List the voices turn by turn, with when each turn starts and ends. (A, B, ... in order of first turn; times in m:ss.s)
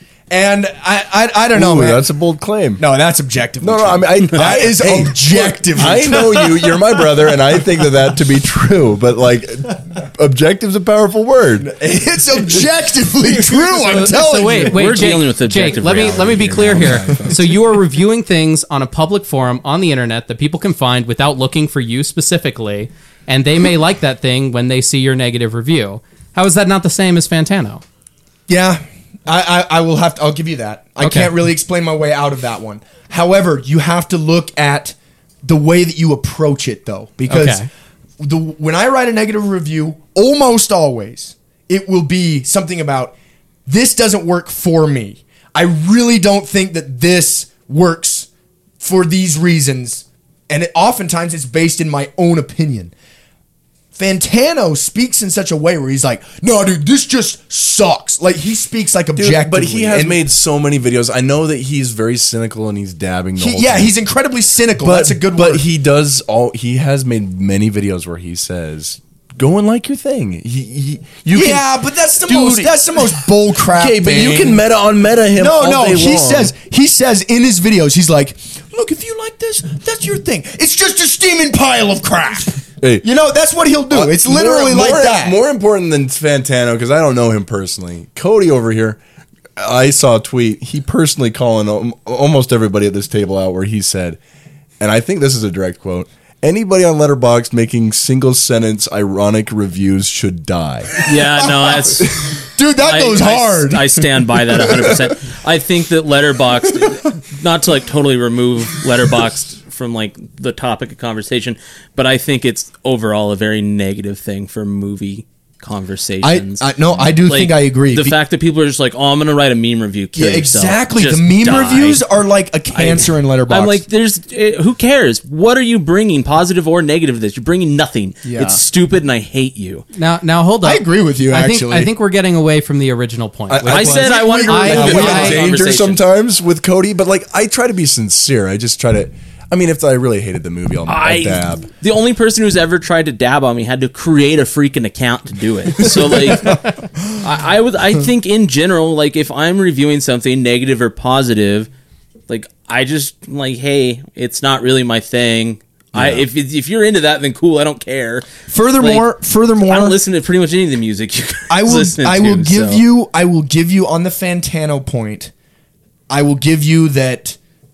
0:00.3-0:02.0 A
0:01.6-0:02.8 B
0:02.8-0:06.8 A
0:03.6-0:11.7 B
0:11.6-0:15.0 A
0:13.8-0:27.8 C
0:14.6-0:17.6 D
0:28.5-0:37.7 A
0:31.0-0:31.3 C
0:37.3-0:37.7 C
0:38.2-0:43.2 A
0:43.7-0:48.3 A
0:48.8-0:52.9 A
0:54.0-1:00.2 A
0:59.2-1:03.9 B
1:03.4-1:05.6 A
1:04.8-1:11.7 B
1:11.3-1:14.6 A
1:12.3-1:12.7 B
1:13.7-1:16.5 B
1:15.3-1:25.4 A
1:23.9-1:29.0 B
1:29.6-1:34.2 B
1:34.8-1:41.1 B
1:41.0-1:42.2 D
1:41.5-1:44.9 A
1:42.8-2:02.0 D
1:56.2-1:58.2 A
2:00.2-2:03.8 A
2:02.7-2:09.8 D
2:08.2-2:08.6 A
2:10.0-2:15.5 C
2:10.6-2:11.9 A
2:13.5-2:21.7 B
2:13.6-2:16.0 D
2:13.9-2:15.4 A
2:20.9-2:26.6 D
2:27.2-2:31.7 D
2:32.3-2:38.3 D
2:36.0-2:36.2 B
2:38.5-2:40.0 A
2:38.8-2:39.1 D
2:39.7-2:42.8 D
2:41.5-2:45.3 A
2:46.1-2:47.4 A